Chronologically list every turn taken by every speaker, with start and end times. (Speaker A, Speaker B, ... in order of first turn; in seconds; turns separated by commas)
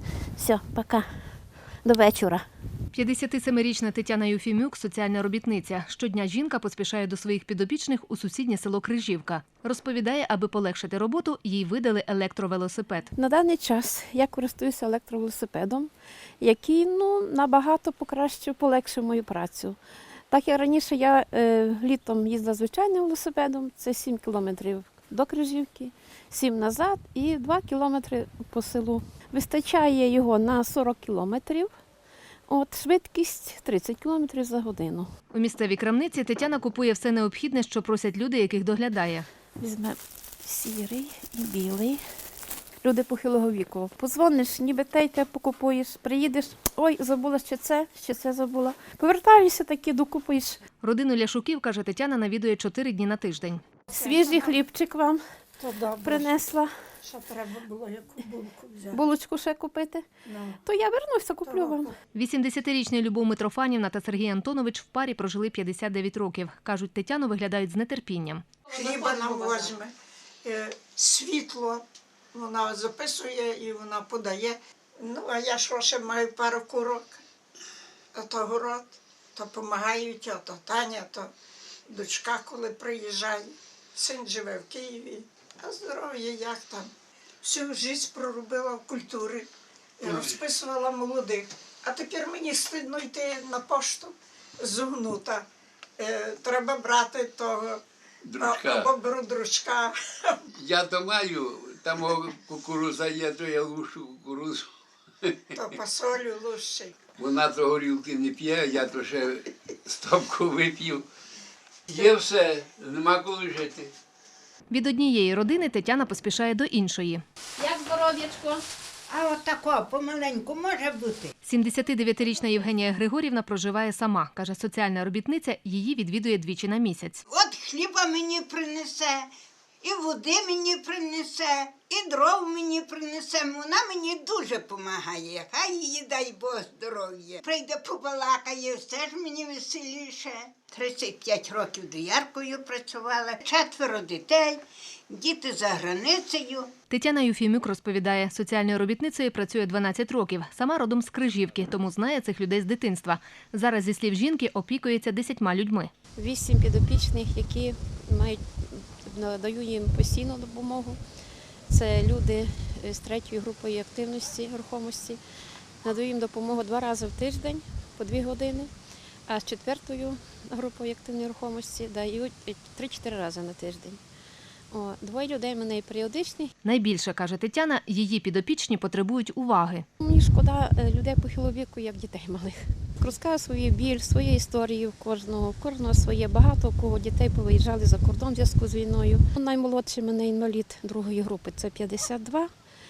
Speaker A: 0.4-1.1, Speaker A: 1.8-2.4, Speaker B: 2.9-13.1, Speaker A: 13.2-19.8, Speaker A: 20.3-31.7, Speaker A: 32.5-35.1, Speaker B: 35.3-39.3, Speaker A: 39.6-42.0, Speaker A: 42.8-50.6, Speaker B: 50.8-53.6, Speaker A: 53.9-55.2, Speaker C: 54.0-54.6, Speaker C: 55.6-56.4, Speaker A: 56.0-56.7, Speaker C: 57.0-59.0, Speaker A: 58.9-60.0, Speaker C: 60.3-60.6, Speaker A: 60.6-61.9, Speaker C: 61.5-61.9, Speaker B: 62.1-68.5, Speaker C: 68.7-69.9, Speaker C: 70.4-77.2, Speaker C: 78.1-81.3, Speaker C: 81.9-86.9, Speaker C: 87.4-89.5, Speaker C: 90.0-97.8, Speaker D: 98.2-98.9, Speaker C: 98.4-100.4, Speaker D: 100.5-104.7, Speaker D: 105.2-105.7, Speaker C: 105.5-107.0, Speaker D: 107.2-111.1, Speaker D: 111.9-113.9, Speaker B: 114.7-117.2, Speaker A: 117.6-118.5, Speaker E: 119.1-121.3, Speaker B: 121.4-127.2, Speaker E: 127.3-129.3, Speaker E: 129.8-146.7, Speaker B: 146.9-155.9, Speaker A: 156.2-161.0, Speaker A: 161.7-165.2, Speaker A: 165.8-168.7, Speaker A: 169.3-174.0, Speaker A: 174.7-176.5, Speaker B: 176.6-179.8, Speaker A: 180.0-192.5